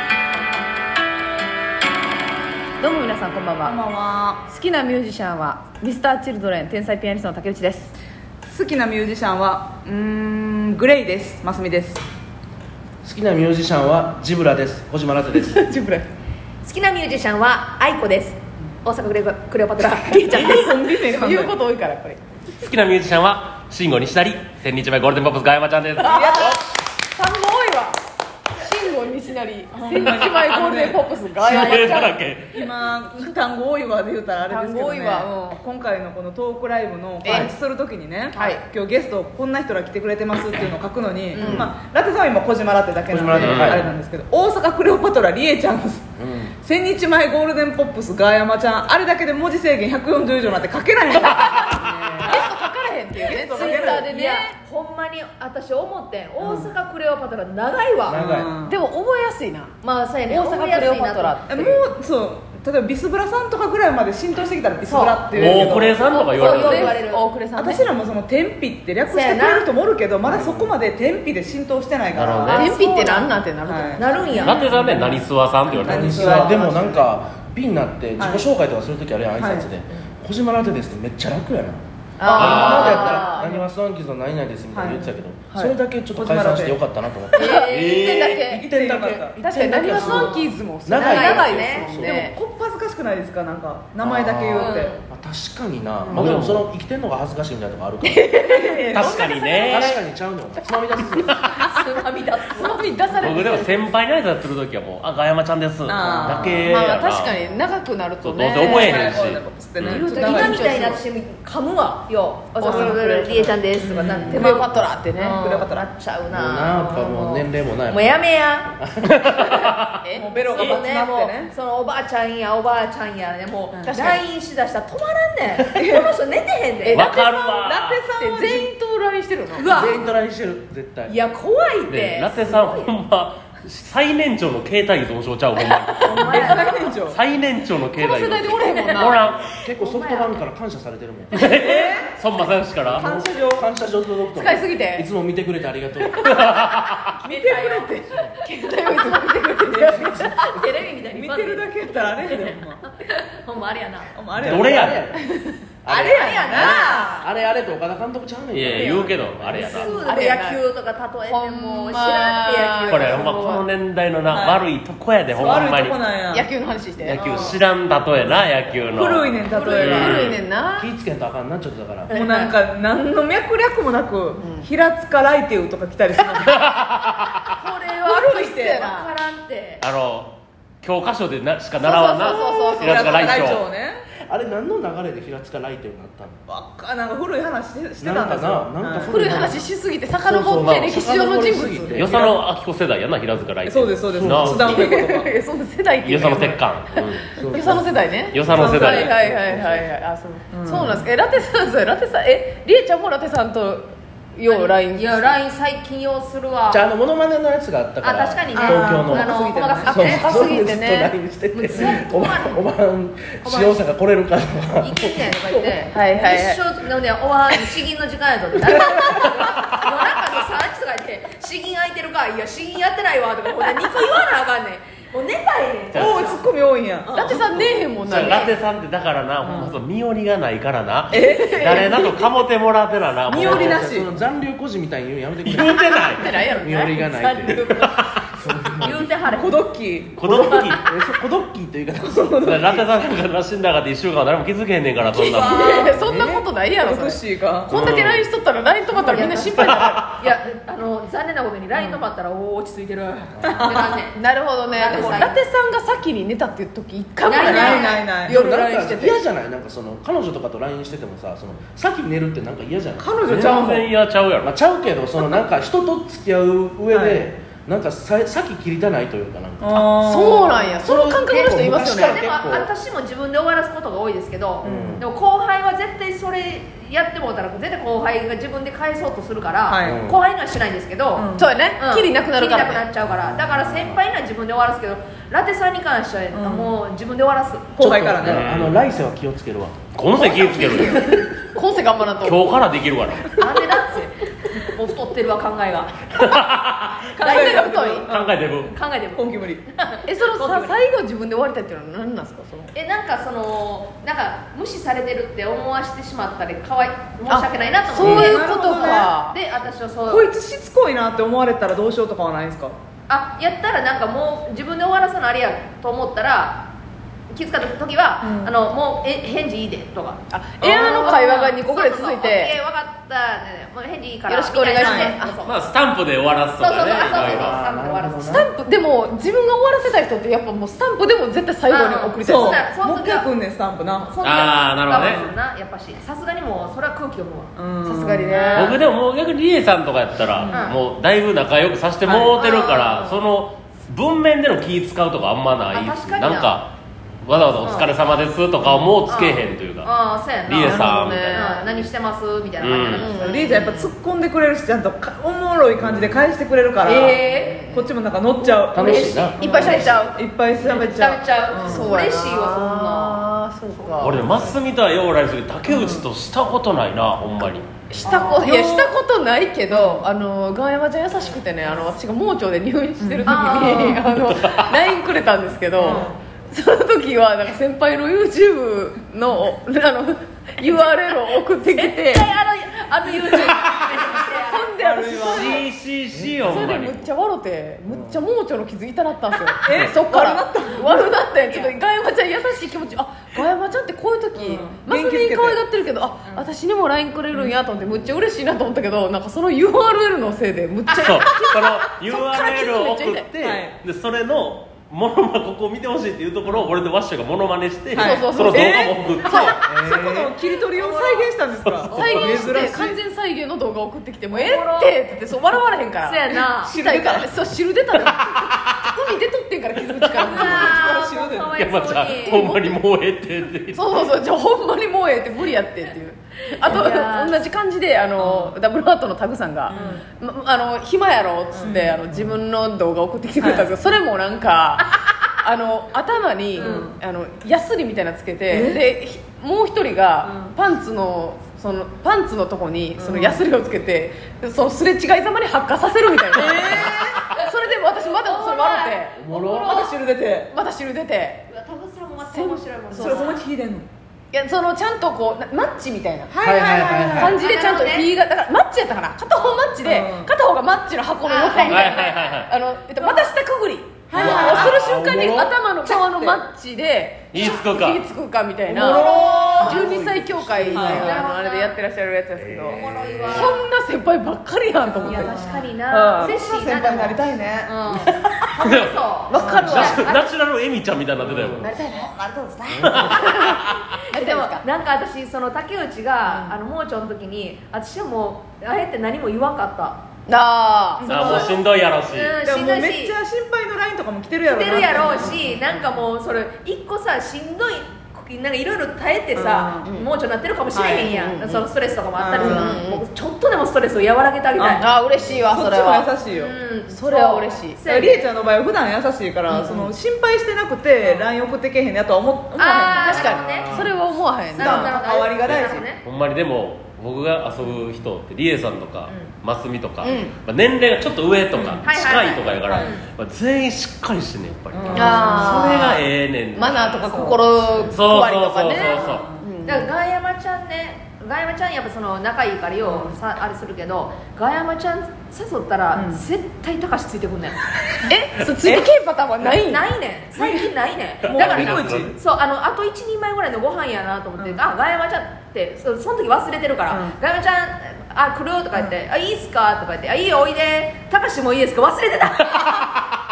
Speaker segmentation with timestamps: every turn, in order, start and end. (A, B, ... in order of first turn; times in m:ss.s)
0:02.8-0:03.8 A
0:03.6-0:04.4 B
0:04.5-0:07.9 A
0:08.5-0:12.0 B
0:13.0-0:15.6 C
0:15.3-0:16.1 A
0:16.6-0:20.7 D
0:19.8-0:22.2 A
0:20.3-0:21.6 B
0:22.6-0:26.6 E
0:26.0-0:26.6 B
0:26.0-0:26.6 A
0:27.2-0:28.0 A
0:28.6-0:32.1 A
0:29.8-0:46.1 B
0:31.4-0:32.6 E
0:34.5-0:35.6 A
0:37.2-0:37.5 A
0:38.3-0:38.6 A
0:41.3-0:41.7 A
0:41.4-0:41.7 C
0:43.1-0:43.9 C
0:43.4-0:43.9 E
0:46.2-0:46.5 C
0:46.6-0:52.4 B
0:52.2-0:52.5 D
0:52.2-0:54.5 A
0:53.2-0:54.1 B
0:53.5-0:58.2 D
0:56.4-0:56.7 B
0:58.1-0:58.5 C
0:58.1-0:58.8 B
0:58.6-1:01.8 A
1:00.0-1:01.4 D
1:01.5-1:06.0 B
1:04.9-1:07.9 A
1:05.3-1:06.9 E
1:06.3-1:07.4 D
1:07.5-1:17.1 B
1:09.1-1:09.7 D
1:10.3-1:10.7 C
1:12.1-1:12.7 E
1:12.5-1:14.6 A
1:12.8-1:13.3 D
1:14.0-1:14.6 D
1:14.4-1:16.4 E
1:15.8-1:27.7 C
1:18.2-1:18.5 B
1:19.4-1:19.7 B
1:22.2-1:23.5 A
1:22.3-1:23.3 D
1:22.3-1:23.1 E
1:23.3-1:23.6 B
1:24.7-1:26.8 B
1:27.4-1:28.4 D
1:27.4-1:28.7 A
1:27.7-1:28.4 E
1:28.4-1:29.4 B
1:28.5-1:32.2 C
1:29.4-1:32.4 A
1:30.0-1:30.5 D
1:31.0-1:32.0 D
1:31.9-1:35.0 B
1:34.0-1:38.4 C
1:34.6-1:35.0 D
1:36.0-1:36.3 A
1:36.1-1:36.7 E
1:38.0-1:40.0 A
1:38.5-1:39.2 B
1:38.9-1:40.0 E
1:39.7-1:41.5 C
1:41.0-1:41.6 A
1:41.5-1:43.0 D
1:42.6-1:43.9 A
1:43.2-1:47.4 E
1:45.9-1:46.9 B
1:46.2-1:46.5 C
1:46.7-1:49.2 A
1:48.2-1:50.1 E
1:48.5-1:50.9 B
1:49.8-1:58.7 D
1:50.1-1:51.0 A
1:52.6-1:53.6 A
1:52.6-1:53.0 B
1:53.8-1:54.7 B
1:54.2-1:55.4 A
1:55.3-1:55.9 B
1:56.3-1:58.1 C
1:58.8-1:59.4 C
1:59.2-1:59.9 E
1:59.4-1:59.7 D
2:00.0-2:00.3 A
2:00.1-2:01.5 B
2:00.3-2:07.0 D
2:03.8-2:04.2 A
2:05.7-2:06.2 B
2:06.8-2:07.5 A
2:06.9-2:08.0 E
2:07.1-2:08.7 B
2:08.2-2:09.7 A
2:09.5-2:10.0 D
2:09.7-2:11.2 C
2:11.1-2:12.9 D
2:11.9-2:19.6 E
2:15.7-2:16.9 D
2:16.0-2:16.6 A
2:16.1-2:17.2 B
2:18.0-2:19.3 A
2:18.7-2:19.1 D
2:19.4-2:21.6 C
2:19.8-2:20.4 D
2:21.3-2:23.1 E
2:21.4-2:22.1 B
2:22.9-2:26.4 C
2:23.0-2:23.7 B
2:24.4-2:25.1 A
2:26.0-2:30.4 A
2:26.4-2:26.9 E
2:27.3-2:28.0 D
2:27.3-2:27.9 B
2:29.8-2:30.6 C
2:30.0-2:34.2 D
2:31.0-2:32.8 B
2:34.2-2:35.2 B
2:34.4-2:35.2 C
2:34.4-2:35.0 E
2:35.2-2:35.6 A
2:35.8-2:39.8 C
2:35.9-2:37.3 D
2:36.0-2:37.1 B
2:38.5-2:40.0 E
2:39.5-2:43.6 D
2:39.6-2:40.6 A
2:41.3-2:43.7 A
2:42.9-2:46.0 E
2:44.3-2:44.7 B
2:45.3-2:46.5 B
2:46.3-2:47.6 A
2:47.0-2:50.4 E
2:47.2-2:47.6 D
2:48.9-2:50.3 B
2:49.5-2:50.9 A
2:50.8-2:52.1 C
2:52.1-2:52.5 D
2:52.1-2:56.7 B
2:54.4-2:54.7 A
2:56.4-2:57.4 E
2:57.6-2:59.1 A
2:57.8-2:59.8 D
2:58.1-2:58.8 B
2:59.8-3:03.6 E
3:01.8-3:03.4 A
3:02.4-3:04.0 B
3:04.3-3:06.4 C
3:06.5-3:09.2 B
3:08.0-3:12.4 C
3:09.1-3:12.0 A
3:10.6-3:10.9 E
3:11.9-3:14.9 E
3:13.7-3:15.3 B
3:14.1-3:14.7 C
3:14.7-3:16.7 A
3:16.0-3:19.1 E
3:17.4-3:19.9 C
3:17.4-3:25.4 A
3:18.6-3:19.1 B
3:20.5-3:21.0 B
3:24.5-3:26.9 D
3:26.7-3:35.4 C
3:28.0-3:30.4 D
3:28.5-3:29.2 A
3:28.6-3:30.6 B
3:29.8-3:32.0 A
3:31.7-3:32.6 D
3:33.4-3:33.8 D
3:34.8-3:46.4 D
3:35.8-3:36.6 A
3:45.9-3:46.4 E
3:45.9-3:48.3 B
3:47.1-3:48.6 A
3:48.0-3:53.8 E
3:49.4-3:49.8 B
3:51.1-3:52.0 B
3:51.3-3:52.1 A
3:53.3-3:54.1 B
3:53.3-3:57.6 C
3:55.4-3:56.5 E
3:56.0-3:57.9 A
3:57.7-3:58.1 E
3:58.3-3:59.1 C
3:58.8-3:59.6 D
3:59.3-4:00.3 B
4:00.2-4:00.9 E
4:00.2-4:02.9 C
4:02.0-4:02.6 B
4:02.4-4:05.7 E
4:05.1-4:07.7 B
4:05.4-4:06.0 D
4:05.4-4:10.0 A
4:06.0-4:06.4 C
4:07.7-4:08.3 E
4:08.9-4:14.2 D
4:09.6-4:10.1 E
4:11.8-4:12.0 B
4:13.4-4:13.8 C
4:13.5-4:13.9 B
4:14.2-4:19.2 A
4:14.7-4:15.4 D
4:17.2-4:18.1 D
4:17.4-4:18.3 B
4:18.2-4:23.8 C
4:23.0-4:23.8 B
4:23.3-4:24.6 E
4:24.4-4:29.8 C
4:26.9-4:27.3 B
4:29.6-4:30.7 B
4:29.8-4:32.3 A
4:30.8-4:32.7 C
4:32.0-4:47.8 D
4:34.6-4:35.0 C
4:34.6-4:35.0 B
4:39.7-4:40.0 B
4:39.8-4:40.2 C
4:41.2-4:41.6 B
4:41.4-4:42.9 A
4:43.2-4:44.0 C
4:46.3-4:46.8 B
4:47.8-4:48.4 B
4:47.8-4:49.9 C
4:48.2-4:48.8 E
4:49.9-4:51.3 E
4:50.4-4:51.0 B
4:50.8-4:52.6 A
4:52.2-4:53.4 E
4:53.4-4:55.9 D
4:56.2-4:57.0 E
4:57.1-4:58.6 B
4:57.2-4:58.1 D
4:57.2-4:58.1 A
4:58.1-4:58.7 E
4:58.7-5:00.8 D
4:59.2-4:59.6 B
5:00.1-5:02.7 A
5:02.7-5:10.3 D
5:07.3-5:09.4 A
5:08.0-5:09.2 B
5:10.1-5:12.8 B
5:13.1-5:16.7 D
5:17.3-5:25.6 D
5:18.2-5:18.5 B
5:20.3-5:22.6 A
5:24.3-5:25.4 A
5:24.8-5:25.2 B
5:25.4-5:27.6 E
5:26.6-5:28.5 D
5:27.0-5:28.5 C
5:28.2-5:32.7 A
5:31.7-5:33.3 D
5:32.2-5:34.1 B
5:34.0-5:37.5 D
5:34.2-5:35.3 E
5:34.9-5:35.4 B
5:37.6-5:38.4 B
5:37.8-5:38.8 A
5:38.3-5:38.8 D
5:38.5-5:49.9 E
5:40.5-5:40.8 D
5:42.1-5:42.3 B
5:42.1-5:43.2 D
5:45.7-5:46.6 D
5:47.6-5:48.0 D
5:49.0-5:53.9 D
5:50.4-5:51.4 E
5:50.6-5:51.7 A
5:52.6-5:53.1 E
5:53.0-5:53.7 A
5:53.2-6:01.9 B
5:55.8-5:56.2 C
5:56.8-5:57.7 D
5:57.2-5:57.9 A
5:58.7-5:59.9 C
5:58.8-6:03.3 D
5:59.4-6:00.2 A
6:01.5-6:04.3 A
6:04.0-6:07.7 E
6:05.7-6:06.1 B
6:07.9-6:22.3 A
6:08.1-6:08.4 D
6:08.2-6:08.9 B
6:09.7-6:10.0 B
6:13.0-6:14.0 B
6:13.3-6:14.0 D
6:15.8-6:16.1 B
6:15.8-6:16.1 D
6:21.6-6:24.8 D
6:24.3-6:25.6 A
6:24.8-6:25.6 B
6:25.2-6:27.1 E
6:26.1-6:26.6 C
6:26.4-6:43.3 A
6:27.9-6:28.2 C
6:29.5-6:31.3 B
6:34.4-6:35.6 B
6:37.3-6:37.6 B
6:37.9-6:38.2 C
6:40.9-6:49.6 E
6:43.4-6:43.7 B
6:46.5-6:46.7 B
6:47.9-6:49.0 B
6:48.0-6:49.7 A
6:49.6-6:53.0 B
6:49.7-6:50.3 C
6:50.5-6:51.4 D
6:51.6-6:52.5 E
6:51.9-6:52.3 D
6:51.9-7:00.9 A
6:54.3-6:55.0 D
6:56.0-6:56.8 D
6:56.6-6:57.3 B
7:00.0-7:00.3 E
7:00.2-7:02.8 D
7:00.2-7:01.6 B
7:01.6-7:04.1 E
7:03.7-7:14.9 A
7:06.6-7:07.4 D
7:08.2-7:08.6 B
7:09.7-7:10.0 B
7:11.6-7:12.0 B
7:13.4-7:13.8 B
7:15.4-7:29.2 A
7:16.6-7:16.9 D
7:16.6-7:16.9 B
7:18.5-7:18.9 B
7:20.3-7:20.5 D
7:23.0-7:23.4 B
7:26.3-7:27.3 B
7:26.8-7:27.1 D
7:28.0-7:29.9 D
7:29.2-7:29.8 C
7:29.6-7:30.5 B
7:30.5-7:31.4 A
7:31.5-7:33.4 D
7:32.2-7:33.4 A
7:32.9-7:33.9 B
7:34.3-7:36.3 A
7:36.3-7:37.4 B
7:36.4-7:37.3 C
7:37.1-7:56.4 A
7:37.2-7:38.1 D
7:39.3-7:39.6 D
7:39.8-7:40.3 B
7:41.2-7:42.4 D
7:41.7-7:42.5 E
7:43.0-7:43.3 D
7:44.1-7:46.4 B
7:44.1-7:44.7 D
7:44.2-7:45.5 C
7:47.3-7:48.0 E
7:47.4-7:47.6 D
7:48.7-7:51.1 C
7:48.8-7:49.7 B
7:48.8-7:49.9 D
7:50.7-7:51.2 B
7:50.8-7:51.8 D
7:52.7-7:53.6 D
7:52.7-7:53.5 E
7:54.9-7:57.7 B
7:55.0-8:00.3 D
7:58.6-8:01.7 E
7:59.3-8:00.1 A
7:59.3-8:00.0 B
8:01.2-8:01.8 C
8:01.6-8:02.1 A
8:01.7-8:03.3 B
8:02.8-8:03.2 C
8:02.8-8:03.8 E
8:03.1-8:04.6 A
8:04.0-8:10.0 D
8:06.2-8:06.5 A
8:10.3-8:11.6 A
8:11.0-8:11.6 B
8:11.1-8:12.4 E
8:12.0-8:13.2 D
8:12.4-8:15.5 B
8:14.4-8:24.8 D
8:19.3-8:20.0 B
8:20.7-8:21.1 B
8:20.8-8:21.7 A
8:22.2-8:22.8 B
8:22.4-8:23.0 A
8:24.6-8:24.8 B
8:24.8-8:26.1 A
8:25.4-8:26.6 B
8:26.3-8:28.3 D
8:26.9-8:27.8 A
8:27.9-8:33.3 B
8:29.5-8:29.9 A
8:32.6-8:33.9 D
8:33.0-8:35.0 A
8:33.2-8:34.0 C
8:34.5-8:35.8 B
8:34.5-8:36.0 D
8:35.5-8:47.2 E
8:39.1-8:39.3 D
8:40.0-8:40.3 A
8:41.6-8:41.8 B
8:41.8-8:43.0 D
8:42.7-8:43.0 B
8:44.7-8:46.0 B
8:44.9-8:46.0 A
8:46.6-8:49.9 A
8:47.0-8:47.9 B
8:47.9-8:49.2 E
8:48.7-8:49.5 B
8:49.6-8:57.6 D
8:52.8-8:53.2 B
8:56.0-8:56.2 B
8:58.0-8:59.8 A
8:58.6-8:58.9 B
8:59.5-9:13.0 D
9:00.3-9:00.7 B
9:01.2-9:02.1 E
9:01.2-9:02.2 B
9:04.4-9:04.6 B
9:06.9-9:07.2 B